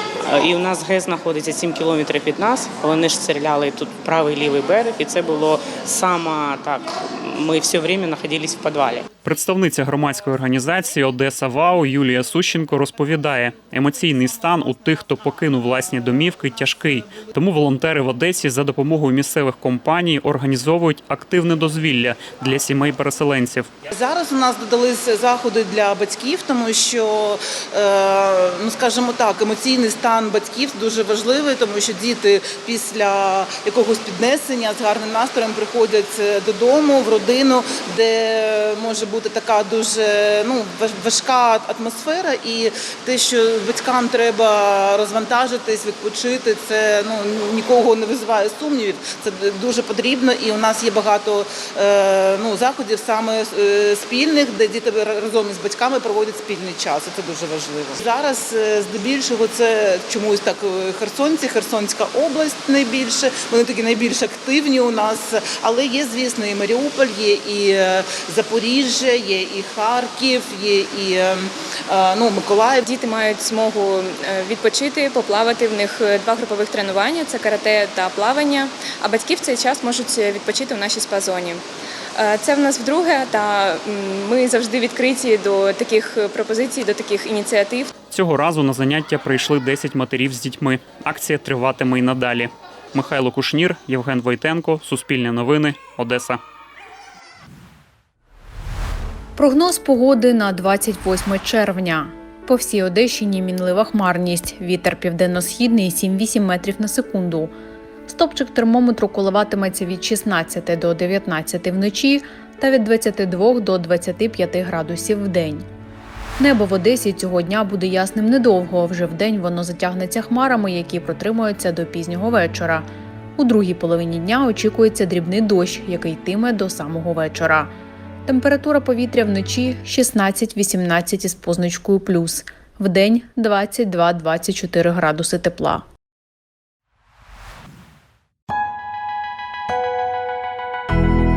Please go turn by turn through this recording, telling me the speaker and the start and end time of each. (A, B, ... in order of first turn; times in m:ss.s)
0:00.2-0:09.0 A
0:09.2-0:23.7 B
0:23.9-1:12.9 C
1:12.9-1:21.6 D
1:22.2-1:27.9 D
1:28.1-1:36.4 B
1:39.4-1:47.5 E
1:48.1-1:55.6 E
1:56.4-2:02.9 E
2:03.4-2:07.7 E
2:08.3-2:15.8 E